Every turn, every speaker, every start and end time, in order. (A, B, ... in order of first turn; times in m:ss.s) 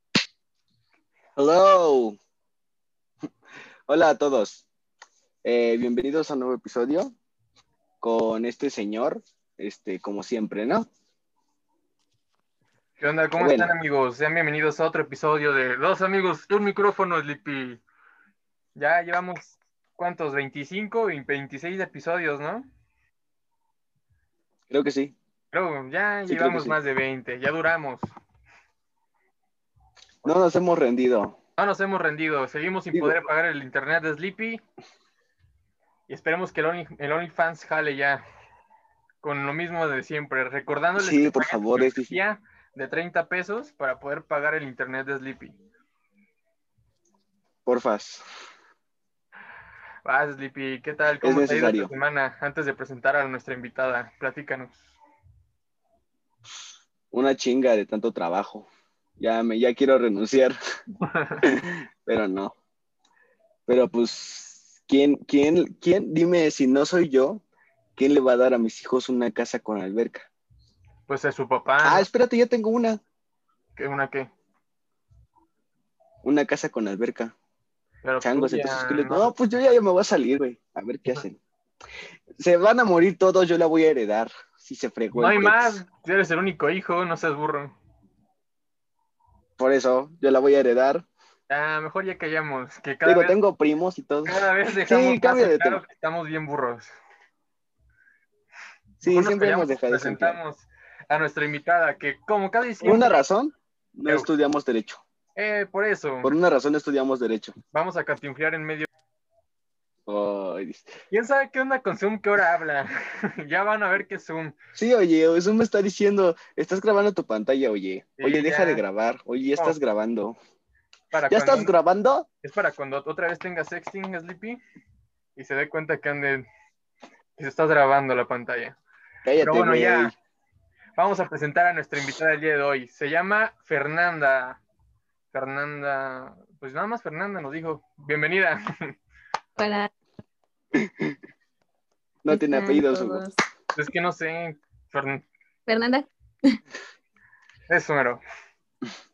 0:01.4-0:02.2 A
0:03.9-0:04.6 A
0:05.4-0:07.1 A
0:08.0-0:10.9 A
0:13.0-0:17.8 B
0:13.4-0:13.7 A
0:18.8-0:22.7 B
0:24.7-0:25.2 A
0:25.5-0:28.1 B
0:26.3-0:26.8 A
0:30.2-0:31.4 A
0:31.6-0:34.6 B
0:36.1-0:38.2 B
0:39.2-0:45.6 B
0:41.0-0:42.2 A
0:47.7-0:48.2 A
0:50.0-0:54.8 B
0:51.2-0:51.9 A
0:57.1-1:00.6 A
1:01.0-1:01.5 B
1:01.4-1:02.6 A
1:03.7-1:07.4 A
1:08.0-1:10.3 A
1:11.1-1:12.1 B
1:11.8-1:13.0 A
1:13.8-1:14.3 B
1:16.2-1:17.3 A
1:18.0-1:19.3 B
1:18.2-1:21.4 A
1:22.4-1:25.8 A
1:25.1-1:27.7 B
1:29.6-1:31.0 A
1:31.5-1:33.4 B
1:33.0-1:35.8 A
1:34.2-1:36.9 B
1:39.0-1:40.4 A
1:39.0-1:43.2 B
1:42.8-1:45.0 A
1:45.4-1:46.3 B
1:46.2-1:47.6 A
1:47.7-1:48.9 B
1:50.1-1:50.9 A
1:51.1-1:54.6 B
1:54.8-2:00.4 A
1:58.2-1:58.8 B
2:01.1-2:01.7 B
2:01.3-2:02.3 A
2:02.4-2:04.6 B
2:05.4-2:06.5 B
2:07.4-2:08.8 B
2:09.2-2:10.1 A
2:09.4-2:10.1 B
2:11.0-2:14.6 B
2:15.3-2:19.0 B
2:19.6-2:19.9 C
2:20.8-2:21.2 A
2:22.2-2:23.2 A
2:22.3-2:23.4 C
2:23.8-2:25.2 B
2:25.7-2:26.6 C
2:27.7-2:28.2 B